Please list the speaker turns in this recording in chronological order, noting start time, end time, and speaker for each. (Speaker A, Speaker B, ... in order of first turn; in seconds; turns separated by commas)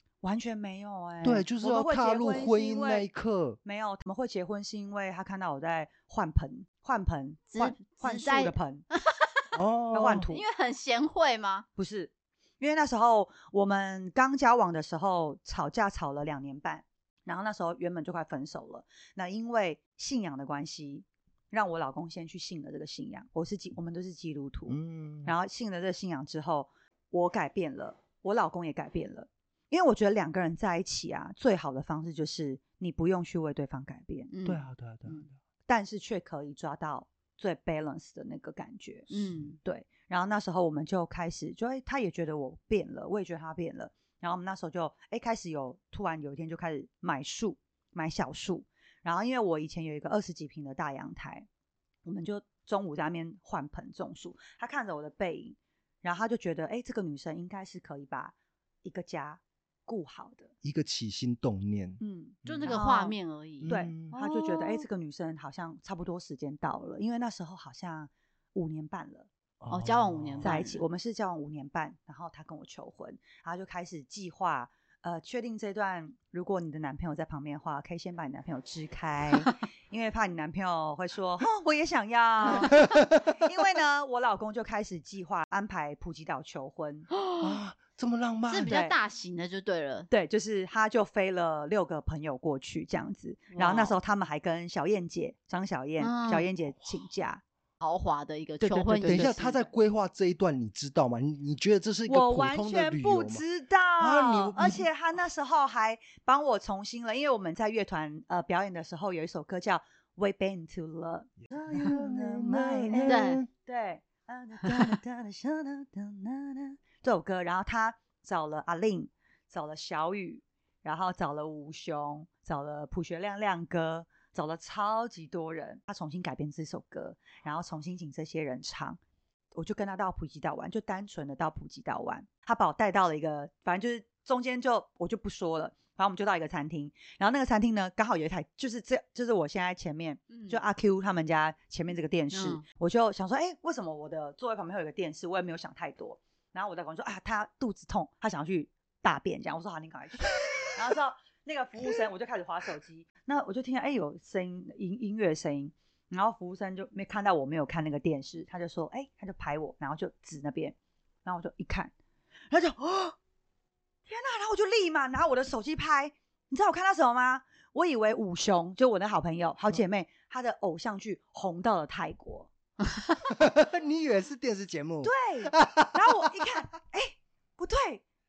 Speaker A: 0.2-3.1, Speaker B: 1.2-3.6, Speaker A: 3.6-8.8, Speaker C: 7.5-9.4, Speaker B: 9.5-10.3, Speaker A: 9.9-10.4, Speaker C: 10.3-11.7, Speaker A: 11.8-34.3, Speaker B: 24.7-25.3, Speaker C: 34.3-35.2, Speaker B: 34.5-35.2, Speaker A: 35.7-51.5, Speaker C: 39.1-39.6, Speaker B: 39.2-39.4, Speaker A: 52.0-60.5, Speaker B: 60.6-62.8, Speaker A: 62.0-63.2, Speaker C: 62.5-64.9, Speaker B: 63.6-64.1, Speaker A: 63.7-69.3, Speaker B: 69.6-70.6, Speaker C: 69.7-70.8, Speaker A: 70.4-87.1, Speaker B: 82.7-83.4, Speaker B: 87.4-88.8, Speaker C: 88.5-90.1, Speaker A: 88.7-89.0, Speaker A: 90.1-97.4, Speaker C: 93.5-94.0, Speaker C: 96.0-96.5, Speaker C: 97.8-99.7, Speaker A: 98.6-99.4, Speaker B: 99.0-103.4, Speaker A: 102.1-129.0, Speaker B: 104.0-104.9, Speaker B: 111.5-113.5, Speaker C: 113.1-113.4, Speaker A: 129.5-161.9, Speaker C: 140.3-140.6, Speaker C: 142.3-142.6, Speaker A: 162.5-163.2, Speaker A: 164.1-172.5, Speaker B: 173.3-176.2, Speaker A: 175.0-178.0